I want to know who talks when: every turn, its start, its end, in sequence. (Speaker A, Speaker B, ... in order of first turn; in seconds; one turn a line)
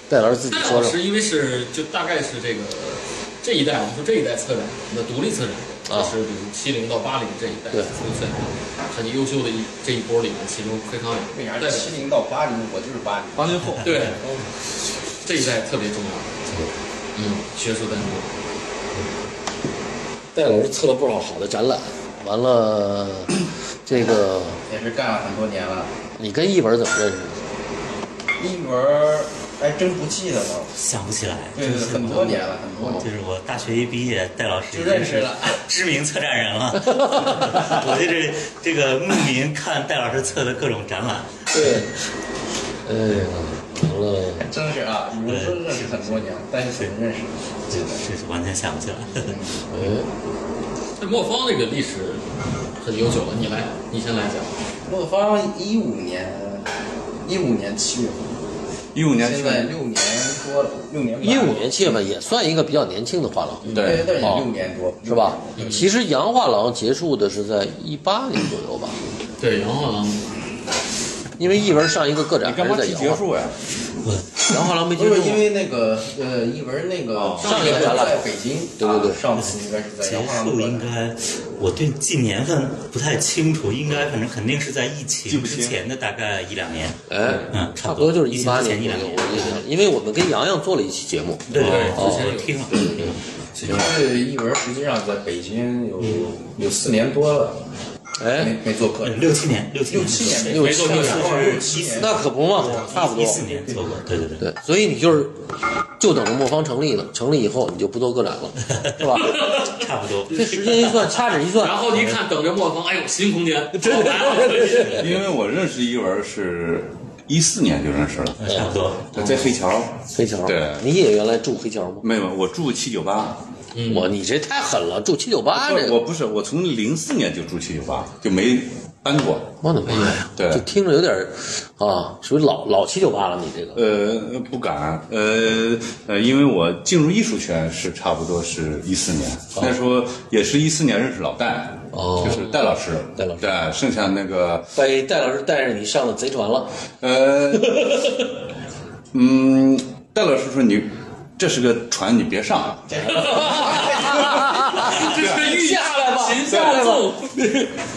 Speaker A: 0.1-1.0
Speaker B: 0.5-12.0
Speaker A: 5.9-6.2
Speaker C: 11.3-13.6
Speaker D: 13.4-14.3
Speaker B: 13.8-14.2
Speaker B: 15.2-16.4
Speaker B: 17.1-18.3
Speaker A: 20.3-23.3
Speaker A: 23.9-24.6
Speaker C: 24.7-26.0
Speaker A: 26.2-27.4
Speaker C: 28.4-30.8
Speaker E: 30.8-41.8
Speaker C: 31.6-33.1
Speaker C: 34.7-35.6
Speaker A: 37.1-37.5
Speaker A: 41.5-41.9
Speaker A: 42.9-44.5
Speaker C: 44.4-48.1
Speaker E: 45.3-46.2
Speaker E: 47.9-49.4
Speaker C: 49.1-49.6
Speaker A: 49.7-50.1
Speaker B: 51.0-54.6
Speaker C: 54.9-56.7
Speaker C: 57.2-58.3
Speaker D: 58.9-59.7
Speaker C: 59.1-61.9
Speaker A: 61.2-64.5
Speaker B: 63.6-64.0
Speaker D: 63.7-64.1
Speaker C: 63.8-65.7
Speaker A: 65.1-69.0
Speaker B: 65.6-65.9
Speaker B: 69.4-70.3
Speaker A: 71.4-73.2
Speaker D: 72.4-73.6
Speaker E: 74.0-74.3
Speaker A: 74.4-75.5
Speaker C: 75.0-80.9
Speaker D: 77.2-77.8
Speaker A: 77.4-78.3
Speaker A: 78.8-79.2
Speaker E: 79.4-89.6
Speaker D: 85.3-85.8
Speaker A: 87.1-92.3
Speaker E: 91.5-93.1
Speaker B: 91.5-93.1
Speaker A: 93.0-93.9
Speaker C: 93.6-97.7
Speaker A: 98.2-98.6
Speaker C: 98.3-102.2
Speaker E: 99.0-104.5
Speaker A: 100.5-101.1
Speaker B: 100.5-101.6
Speaker A: 102.0-103.4
Speaker C: 103.5-103.8
Speaker A: 104.4-105.4
Speaker A: 106.0-109.5
Speaker E: 108.7-110.5
Speaker B: 109.3-109.8
Speaker A: 110.3-111.8
Speaker B: 110.3-115.2
Speaker A: 113.8-115.0
Speaker D: 114.9-118.5
Speaker E: 118.4-119.2
Speaker A: 118.5-118.8
Speaker D: 119.1-120.9
Speaker A: 120.1-122.1
Speaker D: 122.0-123.4
Speaker B: 123.7-124.1
Speaker A: 123.9-126.0
Speaker D: 125.5-129.5
Speaker A: 129.6-133.8
Speaker B: 129.9-130.2
Speaker D: 130.4-130.7
Speaker D: 133.8-144.7
Speaker A: 141.9-142.4
Speaker B: 142.2-142.6
Speaker A: 143.2-143.6
Speaker A: 144.7-146.7
Speaker D: 147.0-148.0
Speaker A: 147.8-148.1
Speaker D: 149.1-155.6
Speaker A: 153.0-157.0
Speaker C: 153.3-154.2
Speaker B: 153.8-157.7
Speaker D: 156.5-157.1